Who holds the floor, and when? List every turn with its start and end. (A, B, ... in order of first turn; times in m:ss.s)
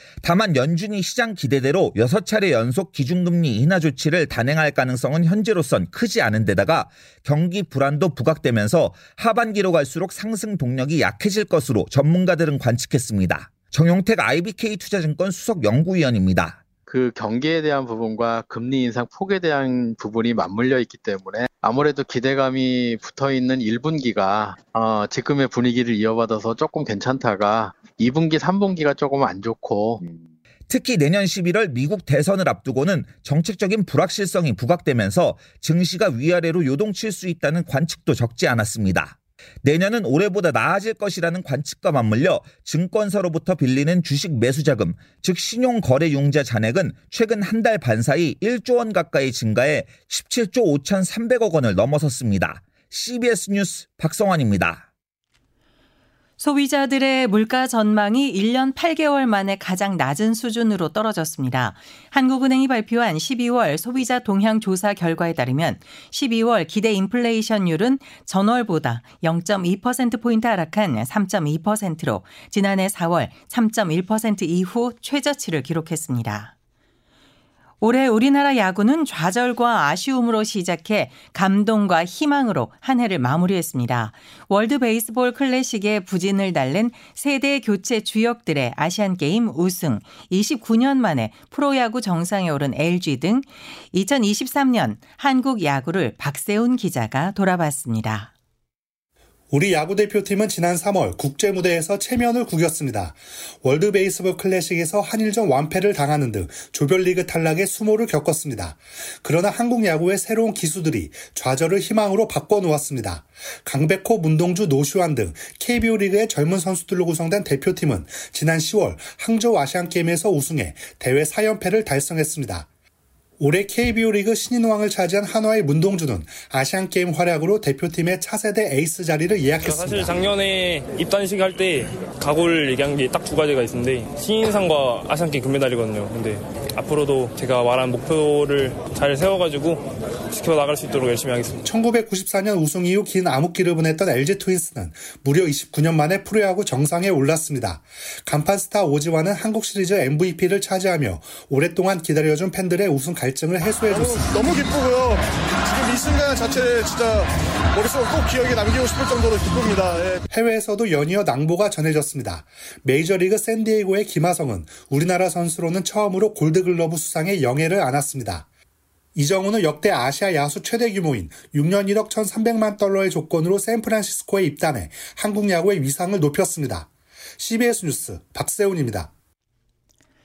0:00.2-0:16.6 A
0:16.9-0:30.0 B
0:30.7-0:54.8 A
0:56.4-1:16.5 C
1:17.8-1:38.3 C
1:39.5-2:02.6 D
2:03.4-2:10.3 D
2:09.6-2:10.0 E
2:10.5-2:15.4 E
2:16.9-2:19.8 E
2:20.5-2:21.5 E
2:21.6-2:34.5 D
2:33.9-2:40.2 F
2:40.3-2:48.4 D
2:49.2-2:56.9 D
2:57.4-2:59.1 D